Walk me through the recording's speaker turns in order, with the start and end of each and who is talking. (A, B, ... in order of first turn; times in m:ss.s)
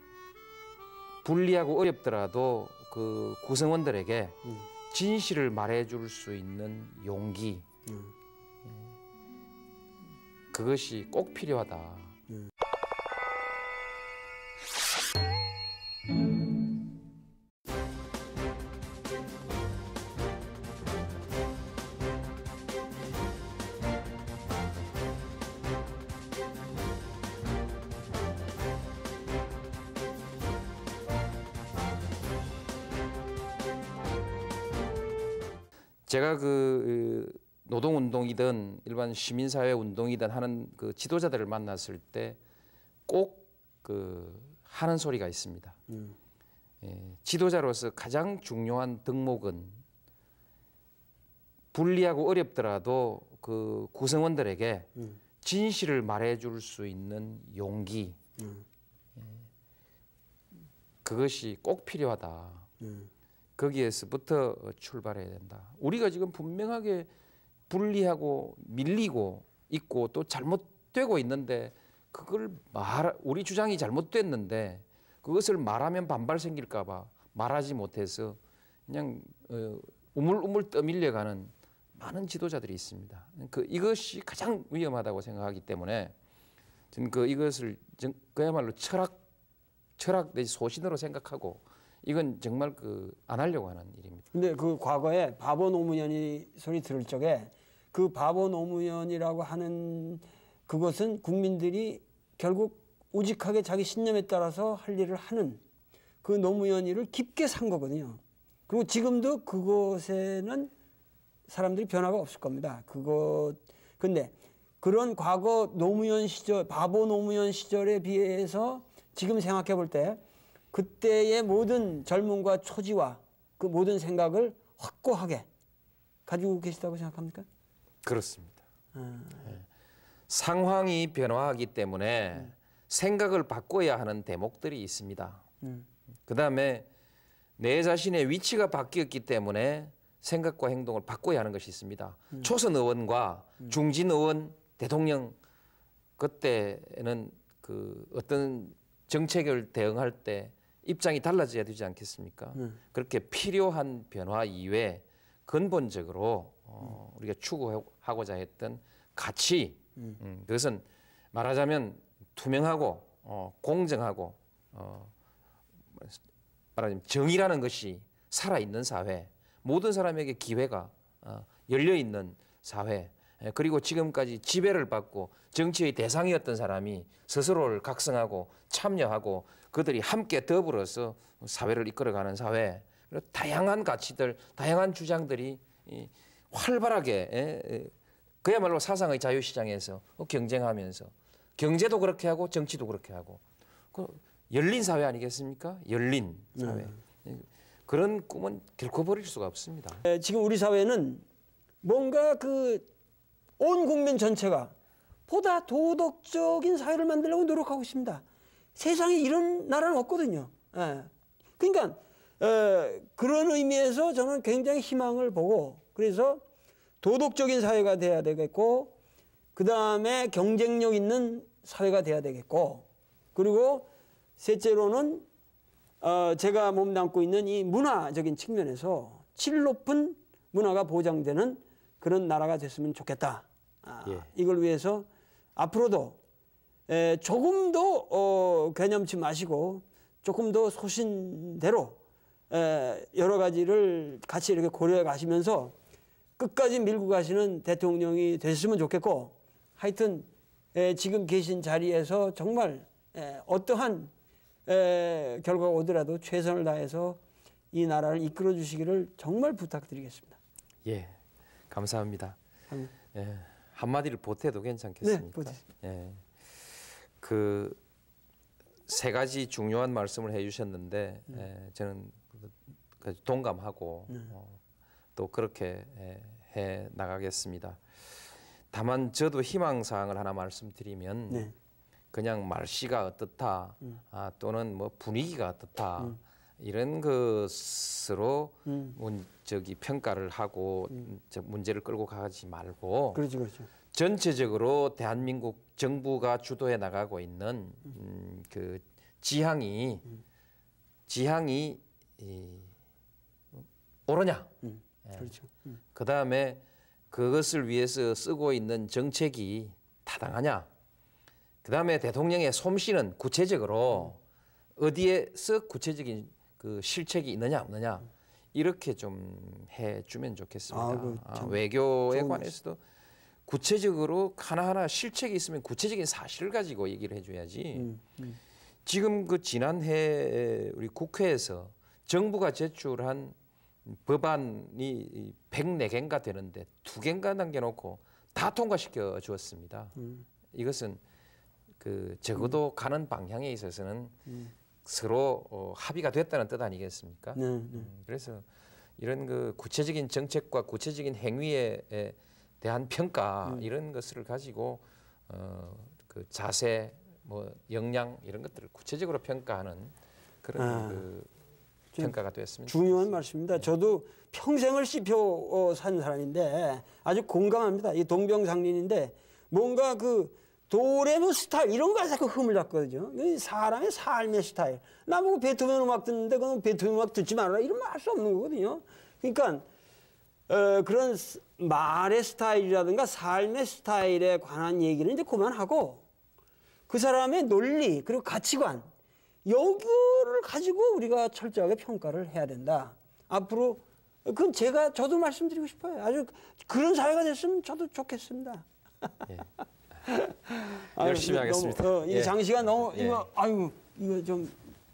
0:01.2-0:04.4 A
0:04.9-0:07.7 A
0:07.9-0:08.1 B
0:10.5-0:12.2 A
0:36.1-0:42.4 A
0:43.1-0:45.8 A
0:46.8-0:49.8 A
0:51.7-0:54.9 A
0:55.4-0:58.2 A
0:58.4-0:58.6 B
1:01.0-1:02.7 A
1:02.8-1:03.1 B
1:03.6-1:07.1 A
1:07.7-1:26.1 A
1:26.9-1:29.2 A
1:30.0-1:34.2 A
1:34.3-1:45.6 B
1:46.2-1:50.7 B
1:51.5-2:00.2 B
2:00.7-2:05.5 B
2:06.3-2:07.5 B
2:08.0-2:08.6 A
2:09.0-2:09.5 B
2:10.3-2:15.4 A
2:16.3-2:16.9 A
2:17.6-2:25.4 A
2:26.2-2:45.1 A
2:46.8-3:13.4 A
3:13.9-3:20.0 A
3:16.6-3:16.9 B
3:20.0-3:21.2 B
3:21.8-3:22.9 B
3:23.6-3:24.7 B
3:25.3-3:28.2 B
3:28.8-3:36.4 B
3:37.0-3:39.0 B
3:39.6-3:45.3 B
3:46.0-3:56.2 B
3:56.9-4:05.8 B
4:06.4-4:14.1 B
4:14.7-4:17.2 B
4:17.7-4:20.4 B
4:20.9-4:21.2 A
4:21.7-4:22.4 A
4:23.1-4:26.2 A
4:25.0-4:25.6 B
4:27.2-4:27.8 A
4:28.9-4:34.6 A
4:35.2-4:37.8 A
4:38.7-4:41.5 A
4:42.1-4:53.2 A
4:48.7-4:49.0 B
4:53.1-4:53.7 B
4:53.9-5:00.1 A
5:01.1-5:02.7 A
5:04.1-5:04.5 A
5:05.1-5:05.3 A
5:05.2-5:05.6 B
5:05.9-5:10.7 A
5:11.6-5:14.2 A
5:14.8-5:22.8 A
5:20.7-5:22.5 B
5:23.5-5:28.0 A
5:27.8-5:28.4 B
5:28.8-5:33.4 A
5:33.9-5:40.0 A
5:40.0-5:40.2 B
5:40.5-5:41.0 A
5:41.8-5:44.2 A
5:44.8-5:48.4 A
5:47.4-5:47.9 B
5:49.0-6:01.3 A
6:00.6-6:01.0 B
6:02.0-6:03.7 A
6:02.7-6:19.7 B
6:20.5-6:26.0 B
6:26.9-6:28.9 B
6:29.4-6:38.7 B
6:39.3-6:39.5 A
6:40.1-6:44.6 B
6:41.0-6:43.3 A